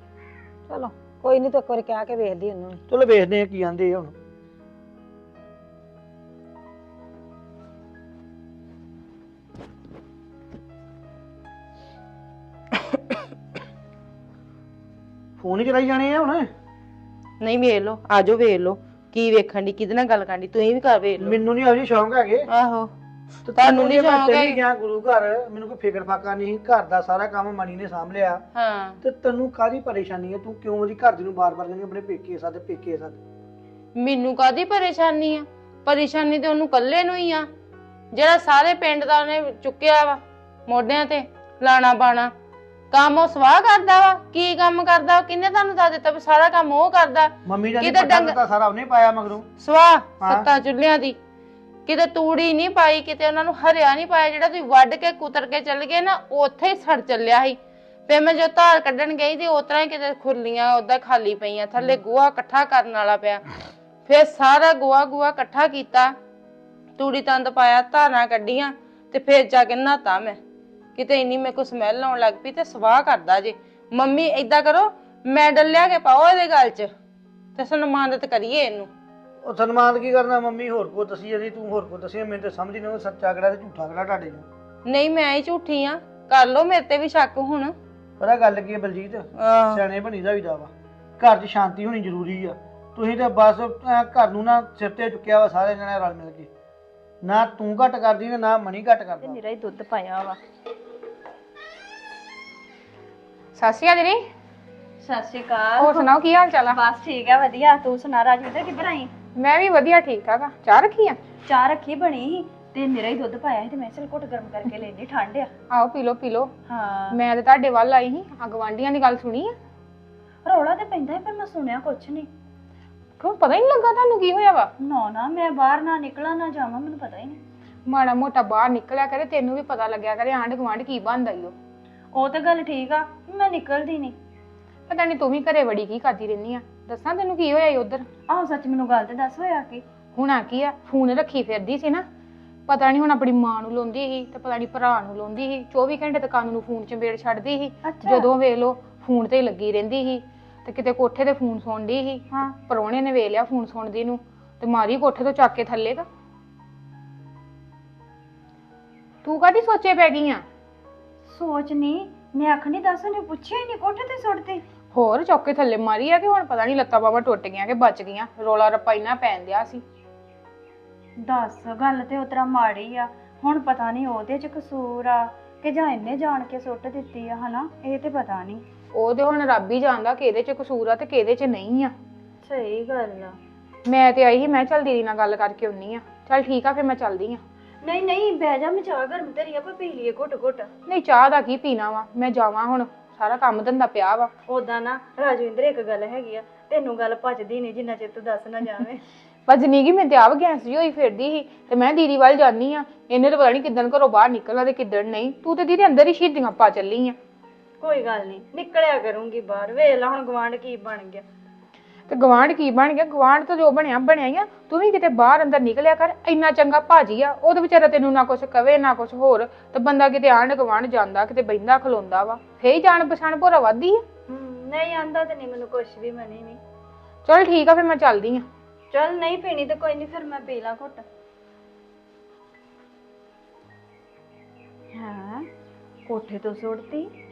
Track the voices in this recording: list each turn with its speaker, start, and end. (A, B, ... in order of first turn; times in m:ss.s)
0:00.7-0:02.8 A
0:02.9-0:04.1 B
0:15.4-0:16.5 B
0:17.4-0:21.4 C
0:21.2-0:22.5 B
0:22.5-0:22.9 C
0:23.5-0:28.4 B
0:23.6-0:24.6 C
0:28.6-0:29.0 C
0:29.0-0:33.2 B
0:34.0-0:37.5 C
0:38.1-0:42.3 C
0:42.9-0:48.3 C
0:47.4-0:49.5 B
0:49.6-0:51.2 C
0:50.2-0:50.4 B
0:51.9-0:57.6 C
0:58.1-1:03.4 C
1:04.1-1:06.1 C
1:07.0-1:10.4 C
1:11.0-1:16.9 C
1:17.6-1:18.9 C
1:19.4-1:24.4 B
1:24.8-1:27.7 C
1:28.2-1:36.5 B
1:29.4-1:29.8 C
1:37.2-1:39.4 B
1:39.2-1:40.4 D
1:43.6-1:44.2 E
1:45.0-1:49.1 D
1:45.8-1:46.8 E
1:49.4-1:51.2 E
1:51.4-1:55.5 D
1:55.7-1:56.5 E
1:56.7-1:57.2 D
1:57.1-1:59.5 E
2:00.4-2:02.3 D
2:03.2-2:04.7 E
2:04.8-2:07.4 D
2:07.8-2:11.5 E
2:12.1-2:14.2 D
2:14.9-2:18.0 E
2:18.3-2:19.8 D
2:20.2-2:22.0 E
2:22.7-2:36.0 E
2:27.8-2:28.3 D
2:39.2-2:40.4 E
2:41.2-2:44.6 D
2:44.9-2:49.8 E
2:51.2-2:58.6 D
2:58.9-3:01.9 E
3:02.4-3:03.4 D
3:03.8-3:07.4 E
3:07.8-3:10.7 D
3:10.9-3:14.3 E
3:14.5-3:19.0 D
3:19.5-3:27.1 E
3:27.8-3:31.2 D
3:32.1-3:44.0 E
3:44.3-3:46.6 D
3:47.2-3:48.4 E
3:48.9-3:51.0 D
3:54.9-3:55.5 D
3:56.0-3:57.1 D